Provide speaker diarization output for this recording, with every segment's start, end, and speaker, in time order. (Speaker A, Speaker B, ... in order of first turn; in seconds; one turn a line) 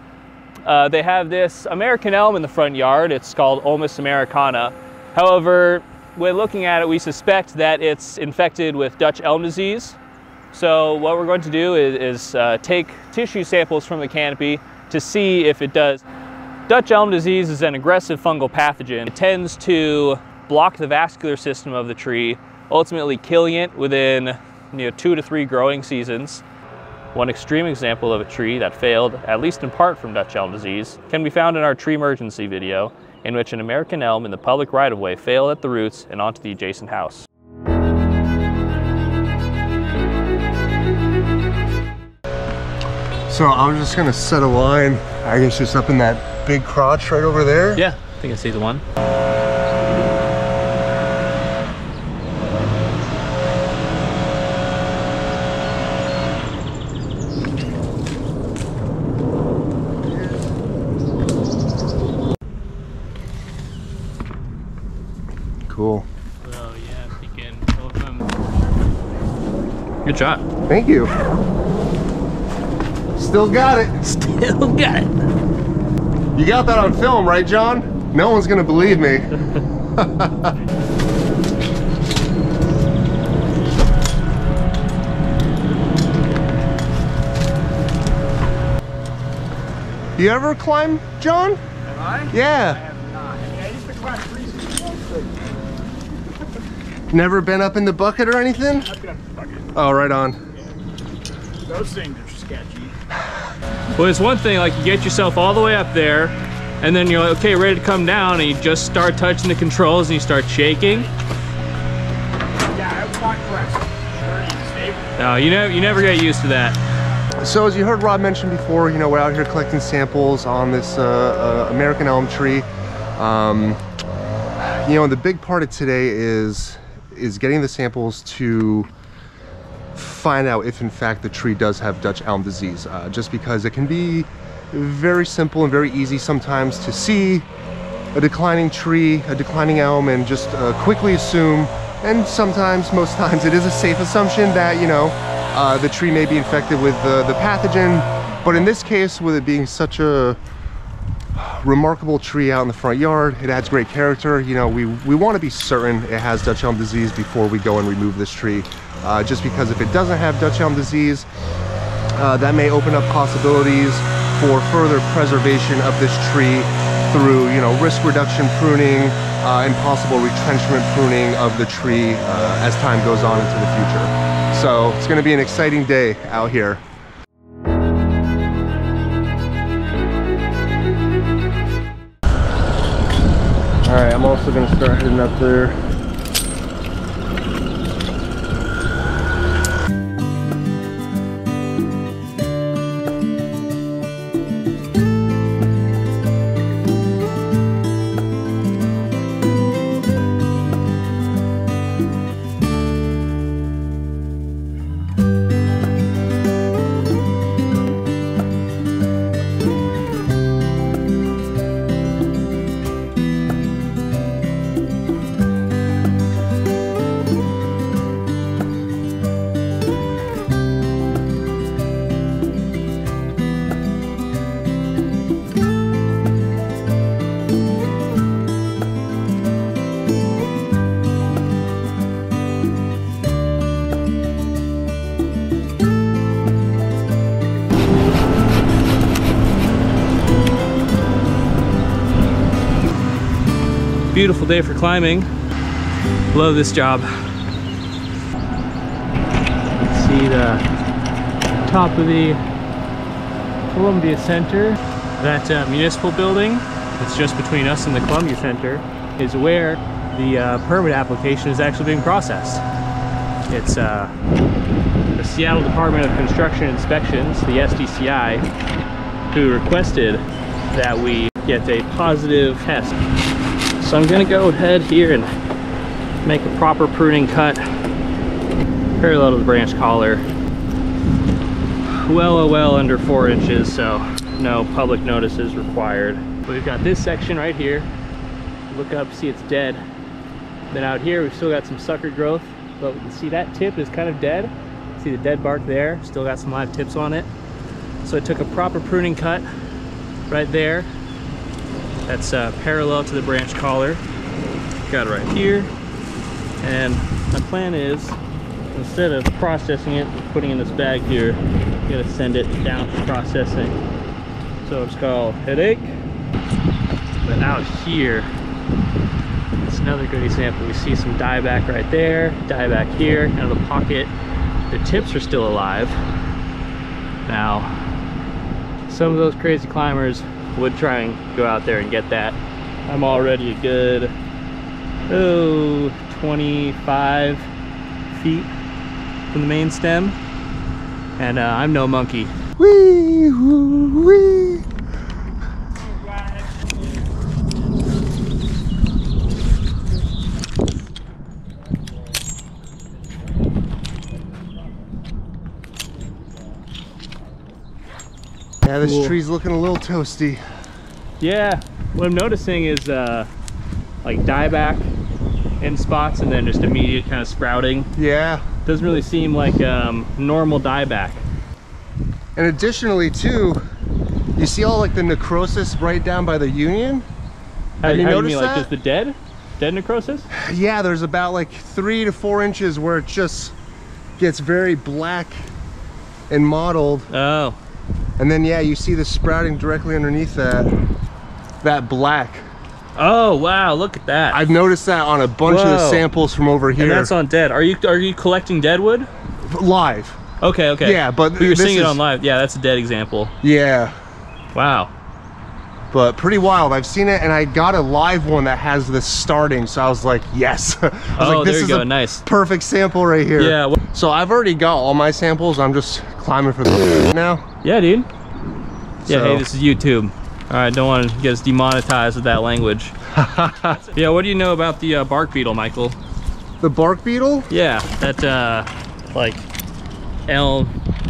Speaker A: 0.7-10.0
Speaker A: 10.5-16.0
Speaker A: 16.7-26.4
Speaker A: 27.1-37.3
Speaker B: 43.3-47.9
Speaker A: 47.8-48.8
Speaker B: 65.7-66.1
Speaker A: 66.4-68.3
Speaker A: 70.0-70.4
Speaker B: 70.7-71.1
Speaker B: 73.2-74.0
Speaker A: 74.0-75.1
Speaker B: 76.3-79.4
Speaker B: 80.0-80.6
Speaker B: 90.2-91.6
Speaker C: 91.9-92.3
Speaker B: 92.3-92.8
Speaker C: 92.9-95.3
Speaker B: 97.1-98.9
Speaker C: 98.9-99.7
Speaker B: 99.7-100.4
Speaker C: 101.7-102.9
Speaker A: 104.0-111.1
Speaker C: 112.7-115.2
Speaker A: 115.2-116.8
Speaker B: 117.4-123.8
Speaker B: 124.6-128.9
Speaker B: 129.9-137.5
Speaker B: 138.1-150.4
Speaker B: 151.3-161.3
Speaker B: 162.2-176.8
Speaker B: 183.8-185.8
Speaker A: 244.1-245.3
Speaker A: 246.3-247.1
Speaker A: 249.9-250.6
Speaker A: 251.6-252.4
Speaker A: 253.7-262.6
Speaker A: 263.5-264.1
Speaker A: 265.1-268.5
Speaker A: 269.3-272.9
Speaker A: 273.8-275.3
Speaker A: 276.2-277.7
Speaker A: 279.0-280.3
Speaker A: 281.9-287.9
Speaker A: 288.7-289.8
Speaker A: 290.7-297.3
Speaker A: 298.0-299.5
Speaker A: 300.3-300.9
Speaker A: 302.1-304.0
Speaker A: 304.9-305.7
Speaker A: 306.6-308.2
Speaker A: 308.7-313.8
Speaker A: 314.6-315.9
Speaker A: 317.2-318.3
Speaker A: 319.6-324.1
Speaker A: 324.7-326.0
Speaker A: 327.3-327.8
Speaker A: 328.9-334.1
Speaker A: 335.1-337.5
Speaker A: 338.1-338.5
Speaker A: 339.3-340.2
Speaker A: 341.2-342.3
Speaker B: 342.6-344.6
Speaker B: 358.6-360.4
Speaker A: 358.8-359.2
Speaker A: 361.2-363.3
Speaker A: 364.0-364.9
Speaker A: 365.6-367.9
Speaker B: 368.0-368.4
Speaker A: 368.6-371.2
Speaker B: 372.4-373.6
Speaker B: 374.4-377.1
Speaker A: 377.8-380.3
Speaker B: 377.8-378.7
Speaker B: 380.3-383.6
Speaker B: 384.2-385.5
Speaker B: 386.3-387.1
Speaker A: 387.1-387.6
Speaker B: 388.2-390.7
Speaker B: 391.6-392.4
Speaker A: 393.0-394.4
Speaker B: 394.3-397.1
Speaker A: 395.4-396.1
Speaker A: 396.8-399.1
Speaker B: 399.5-400.2
Speaker A: 400.4-403.3
Speaker B: 400.8-402.0
Speaker B: 403.4-403.9
Speaker A: 404.5-404.9
Speaker B: 405.9-417.5
Speaker A: 411.2-412.2
Speaker A: 413.4-413.8
Speaker A: 417.6-418.1
Speaker B: 419.0-419.5
Speaker A: 419.1-423.0
Speaker B: 423.1-423.8
Speaker A: 423.7-426.0
Speaker B: 426.6-427.5
Speaker A: 427.5-429.4
Speaker A: 430.3-430.8